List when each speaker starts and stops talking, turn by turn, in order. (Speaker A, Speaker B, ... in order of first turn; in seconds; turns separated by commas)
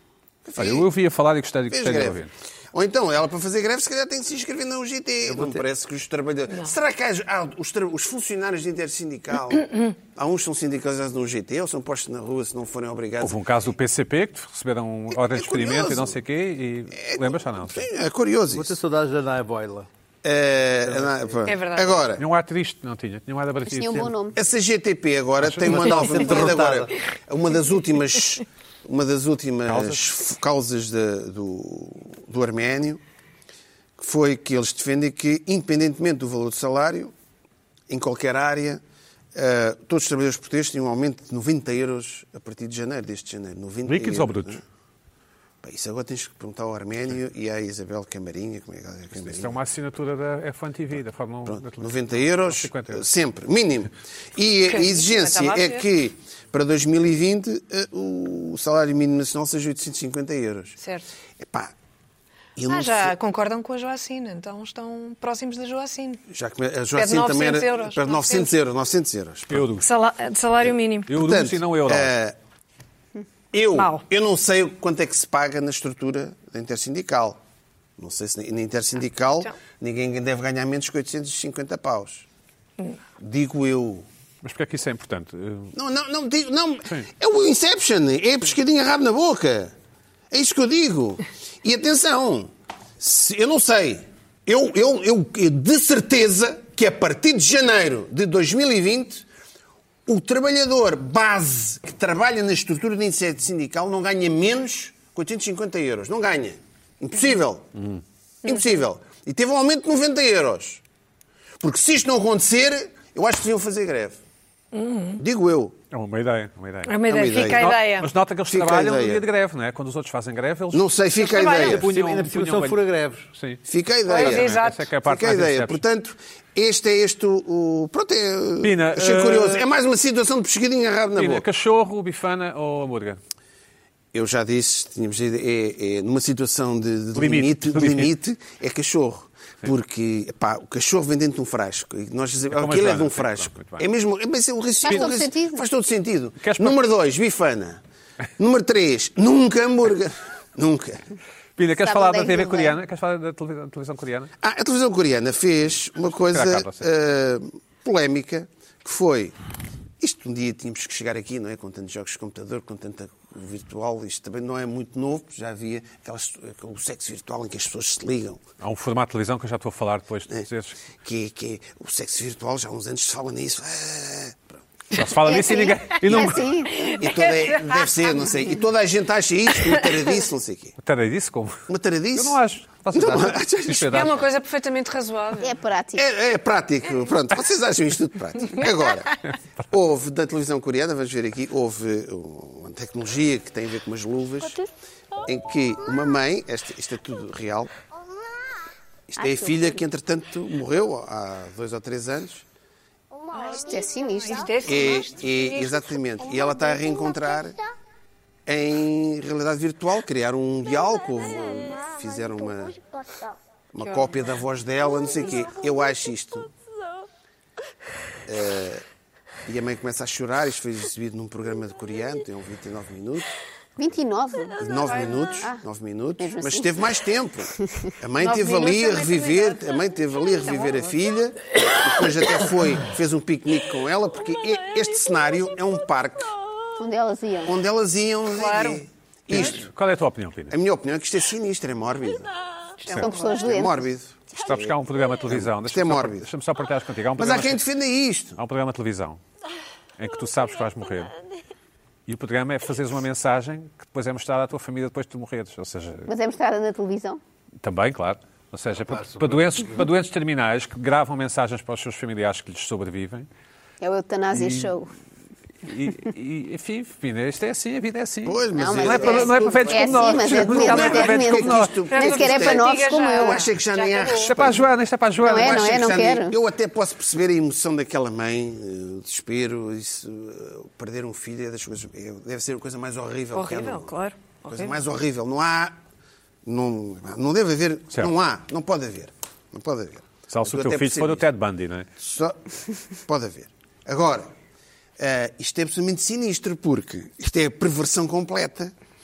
Speaker A: 0.5-0.9, Speaker B: 0.6-2.3, Speaker A: 1.7-2.2, Speaker A: 2.7-13.4, Speaker B: 13.2-17.9, Speaker A: 15.1-16.2, Speaker A: 16.9-18.7, Speaker C: 18.5-19.9, Speaker A: 20.2-22.2, Speaker C: 20.8-21.4, Speaker D: 21.5-22.0, Speaker B: 22.2-24.1, Speaker E: 23.7-24.4, Speaker A: 24.4-33.0, Speaker B: 25.4-26.1, Speaker C: 25.6-26.9, Speaker B: 29.7-30.0, Speaker A: 34.0-37.1, Speaker A: 37.9-38.8, Speaker A: 39.4-44.6, Speaker B: 43.9-44.6, Speaker A: 45.6-49.6, Speaker B: 49.1-53.1, Speaker A: 51.5-60.8, Speaker D: 54.7-55.9, Speaker D: 60.8-61.1, Speaker A: 61.4-61.7, Speaker A: 62.6-63.1, Speaker D: 62.7-66.2, Speaker A: 66.3-69.7, Speaker D: 67.0-68.5, Speaker B: 69.5-69.9, Speaker D: 69.8-71.1, Speaker B: 71.1-72.1, Speaker A: 71.1-72.4, Speaker A: 73.5-77.4, Speaker D: 73.8-74.0, Speaker A: 78.0-82.2, Speaker A: 83.2-84.1, Speaker B: 84.4-85.7, Speaker A: 85.7-89.7, Speaker A: 90.3-99.2, Speaker A: 100.1-107.7, Speaker A: 108.4-110.8, Speaker A: 111.6-114.2, Speaker D: 114.7-115.2, Speaker A: 115.2-115.7, Speaker B: 115.9-122.8, Speaker D: 116.9-118.1, Speaker A: 117.1-117.8, Speaker A: 118.5-119.2, Speaker A: 120.7-121.8, Speaker C: 121.3-123.3, Speaker B: 123.3-125.8, Speaker A: 123.7-131.5, Speaker D: 124.1-124.9, Speaker B: 128.6-129.6, Speaker B: 131.2-133.2, Speaker A: 134.1-147.8, Speaker B: 137.2-138.1, Speaker B: 142.5-143.8, Speaker E: 144.8-145.7, Speaker B: 144.9-145.1, Speaker B: 146.4-146.8, Speaker A: 148.4-151.0, Speaker B: 151.6-154.3, Speaker E: 151.8-152.8, Speaker A: 154.4-159.3, Speaker B: 156.3-156.9, Speaker A: 160.0-168.4, Speaker B: 168.6-170.8, Speaker A: 171.0-174.5, Speaker B: 174.9-176.5, Speaker E: 175.2-176.9, Speaker D: 176.8-178.5, Speaker A: 176.9-180.7, Speaker B: 180.8-181.6, Speaker A: 181.7-182.4, Speaker B: 182.2-184.2, Speaker A: 182.9-184.2, Speaker D: 183.9-185.6, Speaker E: 185.4-186.1, Speaker A: 186.0-189.2, Speaker D: 188.6-188.9, Speaker A: 189.7-194.6, Speaker A: 195.2-197.7, Speaker A: 199.1-202.4, Speaker E: 199.2-199.8, Speaker D: 203.3-205.9, Speaker E: 203.5-205.0, Speaker A: 204.7-207.6, Speaker A: 208.5-212.8, Speaker A: 213.7-216.5, Speaker D: 213.8-214.2, Speaker A: 218.3-218.8, Speaker A: 219.5-223.3, Speaker E: 223.8-224.7, Speaker A: 224.6-227.5, Speaker D: 224.8-225.4, Speaker E: 226.2-226.7, Speaker A: 228.0-236.3, Speaker D: 228.2-229.6, Speaker D: 230.5-230.8, Speaker E: 236.8-237.6, Speaker A: 237.5-239.7, Speaker D: 238.3-238.8, Speaker B: 239.3-240.6, Speaker A: 240.5-242.3, Speaker D: 242.8-243.6, Speaker A: 242.9-244.7, Speaker E: 243.0-243.8, Speaker B: 244.3-247.6, Speaker A: 245.3-246.3, Speaker A: 247.2-248.4, Speaker B: 248.4-249.2, Speaker B: 250.0-251.1, Speaker B: 252.1-256.1, Speaker E: 256.1-257.2, Speaker B: 257.6-263.3, Speaker C: 258.9-259.8, Speaker E: 263.8-264.9, Speaker B: 264.4-264.7, Speaker B: 265.6-271.8, Speaker A: 268.2-274.7, Speaker E: 268.5-273.5, Speaker D: 271.9-274.4, Speaker B: 274.2-275.6, Speaker E: 275.2-276.4, Speaker A: 275.3-283.9, Speaker D: 283.3-284.8, Speaker A: 284.5-285.8, Speaker A: 286.4-291.3, Speaker B: 290.3-291.9, Speaker A: 292.0-294.3, Speaker A: 295.0-298.7